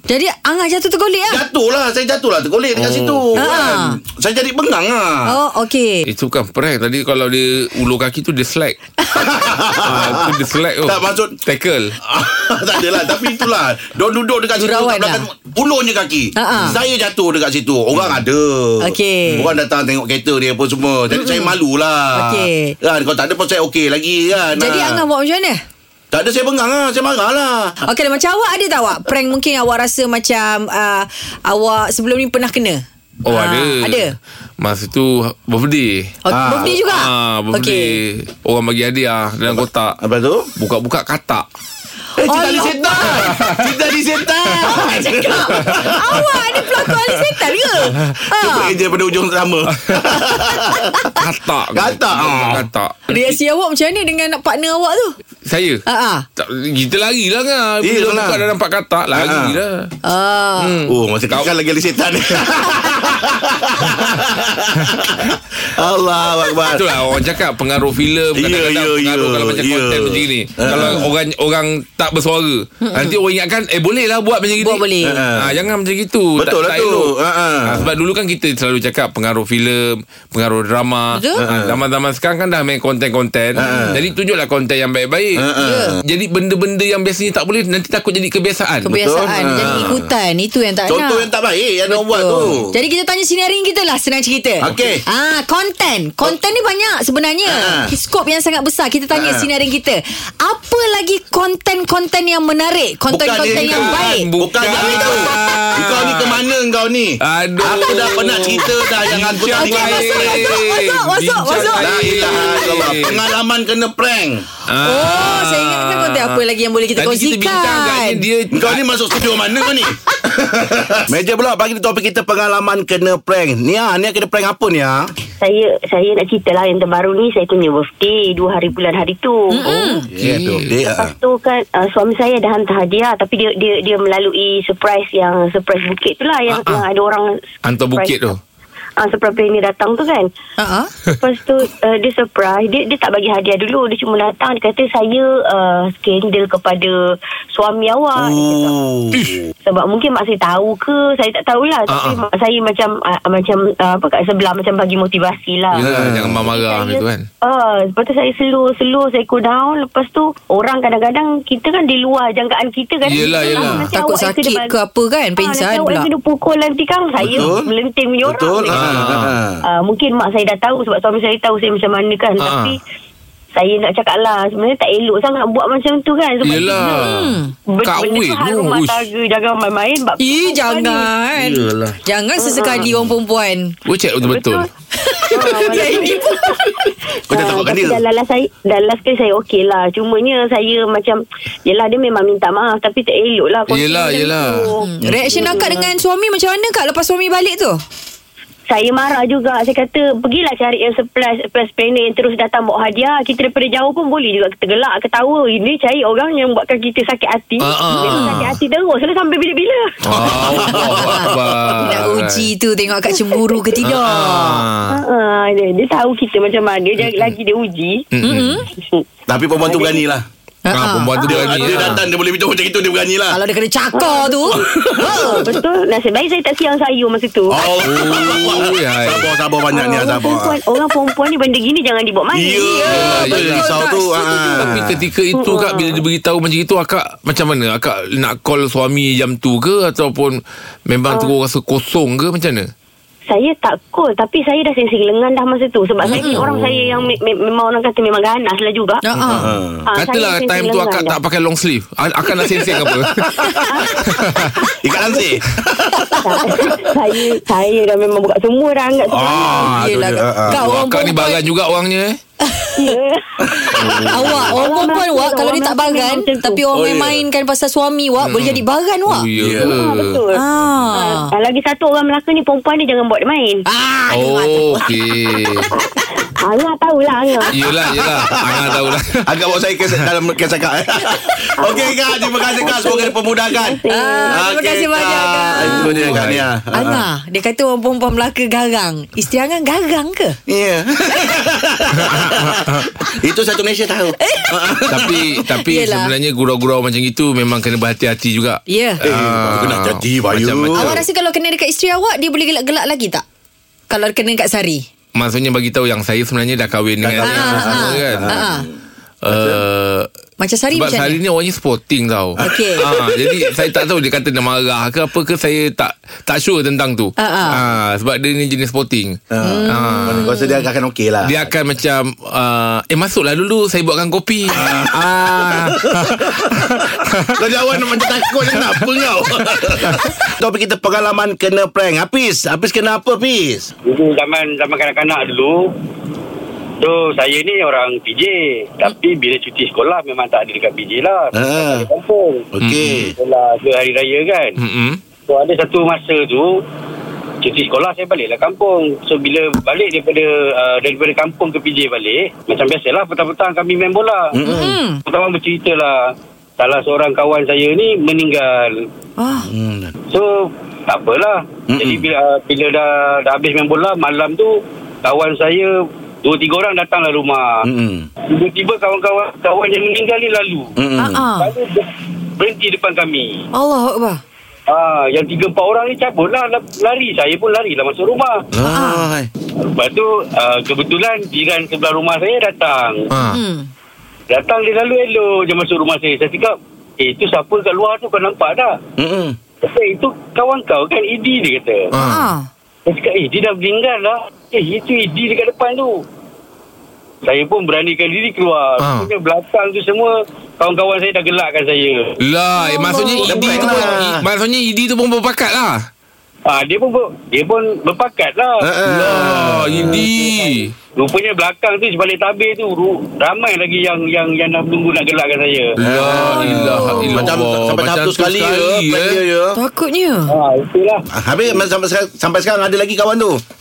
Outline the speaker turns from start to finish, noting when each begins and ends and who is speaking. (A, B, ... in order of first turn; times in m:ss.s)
0:00.1-0:01.4 A
0:01.3-0:05.4 B
0:02.8-0:03.5 C
0:03.4-0:04.0 A
0:05.3-0:06.1 A
0:06.1-0:08.8 C
0:09.1-0:11.4 B
0:09.8-0:12.0 C
0:12.0-0:25.0 B
0:14.6-0:15.2 A
0:16.4-0:16.8 A
0:18.8-0:19.5 A
0:21.1-0:21.5 A
0:22.1-0:22.8 A
0:24.6-0:25.6 A
0:26.1-0:27.8 B
0:27.9-0:34.1 A
0:33.2-0:34.0 C
0:34.6-0:40.0 C
0:36.3-0:38.0 A
0:36.3-0:36.7 B
0:39.5-0:40.5 B
0:40.6-0:41.4 C
0:42.2-0:46.3 B
0:42.2-0:43.4 A
0:43.1-0:43.7 C
0:44.5-0:48.8 A
0:45.6-0:45.9 C
0:47.9-0:48.2 C
0:48.3-0:51.1 B
0:49.8-0:50.2 C
0:50.7-0:51.1 A
0:51.2-0:53.4 C
0:51.7-0:52.6 B
0:53.1-0:55.2 A
0:55.4-0:55.8 C
0:55.9-0:56.2 A
0:56.4-0:59.9 C
0:57.8-0:58.4 B
0:59.1-0:59.6 B
1:00.0-1:00.8 A
1:00.6-1:01.5 C
1:00.9-1:07.0 B
1:06.7-1:25.4 C
1:08.4-1:11.1 B
1:12.8-1:13.2 A
1:14.6-1:15.2 A
1:15.0-1:15.6 B
1:16.4-1:17.9 B
1:21.1-1:21.4 A
1:21.4-1:21.8 B
1:23.6-1:24.1 B
1:25.4-1:26.0 B
1:25.6-1:26.0 A
1:26.0-1:28.9 C
1:28.9-1:30.1 B
1:28.9-1:31.3 A
1:29.6-1:30.0 C
1:30.9-1:32.7 B
1:31.9-1:44.3 A
1:34.6-1:35.0 B
1:37.5-1:37.9 B
1:39.1-1:39.5 B
1:43.1-1:50.6 B
1:43.5-1:46.4 C
1:44.8-1:45.4 A
1:47.2-1:53.2 C
1:49.6-1:52.6 A
1:51.5-1:54.5 B
1:54.7-1:56.4 C
1:54.8-1:58.2 A
1:57.0-1:58.8 C
1:58.5-2:05.1 B
2:05.4-2:09.6 D
2:09.5-2:10.1 A
2:09.6-2:10.7 C
2:10.1-2:11.1 B
2:10.9-2:18.4 D
2:16.5-2:16.8 C
2:17.6-2:18.4 C
2:19.0-2:20.3 D
2:20.6-2:20.9 A
2:21.2-2:28.8 D
2:28.2-2:29.5 B
2:29.6-2:35.8 D
2:31.9-2:32.2 C
2:35.7-2:37.3 C
2:35.8-2:36.5 B
2:36.4-2:44.8 D
2:43.0-2:43.9 C
2:43.9-2:46.1 A
2:45.4-2:48.9 D
2:47.2-2:47.5 C
2:47.2-2:47.7 B
2:48.2-2:49.6 B
2:48.7-2:49.4 C
2:49.6-2:52.8 D
2:52.4-2:52.8 C
2:53.6-2:57.1 D
2:56.4-2:59.0 C
2:56.8-2:57.5 A
2:57.7-3:01.1 D
3:00.2-3:03.7 A
3:01.4-3:02.0 B
3:02.4-3:02.9 D
3:03.9-3:04.7 C
3:04.2-3:04.7 D
3:05.0-3:06.7 A
3:05.3-3:15.9 D
3:05.4-3:06.1 B
3:07.3-3:08.0 B
3:13.7-3:14.7 C
3:14.8-3:17.8 A
3:15.0-3:15.6 B
3:18.7-3:30.0 D
3:27.6-3:28.6 C
3:28.1-3:28.5 A
3:30.0-3:32.5 C
3:30.1-3:31.8 B
3:30.8-3:34.6 A
3:33.1-3:33.7 D
3:33.8-3:35.0 C
3:34.9-3:38.1 D
3:37.0-3:37.3 C
3:38.1-3:38.7 C
3:38.2-3:38.7 A
3:38.8-3:39.0 D
3:39.3-3:40.3 B
3:39.6-3:40.0 D
3:40.7-3:41.1 A
3:40.7-3:42.0 C
3:41.2-3:41.7 D
3:41.2-3:43.4 B
3:43.3-3:45.4 A
3:43.9-3:47.7 D
3:44.6-3:45.5 B
3:47.5-3:50.6 B
3:47.8-3:49.3 C
3:49.7-3:53.3 D
3:52.3-3:55.0 B
3:52.6-3:54.7 A
3:52.9-3:53.8 C
3:54.6-4:02.7 C
3:55.3-3:56.0 D
4:03.3-4:09.0 D
4:06.1-4:06.4 A
4:06.2-4:07.0 B
4:09.0-4:09.5 A
4:09.3-4:09.9 B
4:09.9-4:11.2 D
4:10.0-4:14.6 C
4:13.4-4:14.1 B
4:13.7-4:14.5 D
4:14.8-4:16.5 B
4:15.0-4:15.3 D
4:16.0-4:16.4 A
4:16.2-4:19.7 D
4:19.2-4:20.6 B
4:19.2-4:19.8 C
4:19.3-4:21.4 A
4:20.5-4:22.2 C
4:22.4-4:22.9 A
4:22.8-4:26.6 D
4:23.4-4:24.6 B
4:23.8-4:24.5 C
4:23.9-4:29.3 A
4:26.7-4:27.2 B
4:28.2-4:30.2 C
4:29.4-4:29.8 B
4:29.6-4:33.6 D
4:30.3-4:31.3 A
4:33.7-4:34.9 A
4:34.1-4:35.7 C
4:36.4-4:37.7 D
4:37.5-4:39.2 C
4:37.8-4:47.0 B
4:41.6-4:44.5 D
4:43.9-4:46.2 A
4:45.7-4:46.4 C
4:46.7-4:50.4 A
4:50.5-4:55.3 B
4:52.0-4:52.9 C
4:54.2-4:54.8 A
4:54.9-5:01.0 C
4:55.5-4:56.1 A
4:58.7-4:59.0 A
4:59.0-5:01.0 B
5:00.8-5:03.2 A
5:03.9-5:04.8 A
5:05.2-5:08.4 C
5:07.0-5:08.7 B
5:07.2-5:08.7 A
5:09.2-5:10.1 C
5:09.3-5:09.6 B
5:10.4-5:11.2 A
5:10.7-5:20.3 C
5:12.4-5:13.8 B
5:12.4-5:12.9 A
5:17.2-5:17.6 A
5:19.3-5:21.5 B
5:19.4-5:20.6 A
5:21.2-5:27.4 C
5:24.5-5:33.7 B
5:28.0-5:28.9 C
5:29.5-5:30.1 C
5:33.8-5:35.7 E
5:36.8-5:42.5 E
5:41.3-5:41.9 B
5:42.5-5:43.1 B
5:42.6-5:43.1 C
5:43.1-5:44.6 E
5:44.6-5:45.0 C
5:45.3-5:46.6 E
5:47.4-5:54.4 E
5:54.3-5:54.8 B
5:54.4-5:55.0 A
5:55.0-5:58.9 E
5:59.2-5:59.5 A
5:59.4-5:59.9 B
6:00.1-6:07.6 E
6:01.7-6:02.1 B
6:07.6-6:08.1 B
6:08.3-6:10.8 E
6:10.8-6:11.2 B
6:11.0-6:11.5 A
6:11.4-6:13.4 E
6:13.5-6:14.2 A
6:14.7-6:18.4 E
6:18.5-6:19.3 B
6:18.7-6:19.0 A
6:19.6-6:23.1 E
6:23.1-6:23.4 C
6:23.3-6:23.7 A
6:24.3-6:28.8 E
6:29.0-6:29.4 B
6:29.6-6:31.9 E
6:31.9-6:32.3 C
6:31.9-6:32.5 A
6:32.9-6:36.0 E
6:37.2-6:42.2 E
6:38.8-6:39.1 C
6:42.2-6:45.9 C
6:42.6-6:43.8 A
6:43.3-6:44.2 B
6:46.5-6:48.7 E
6:48.6-6:50.1 B
6:48.9-6:50.7 C
6:50.0-6:55.8 E
6:55.8-6:59.2 C
6:55.8-6:59.6 B
6:56.1-6:57.3 A
6:59.6-7:00.3 A
7:00.3-7:01.0 E
7:01.1-7:03.4 B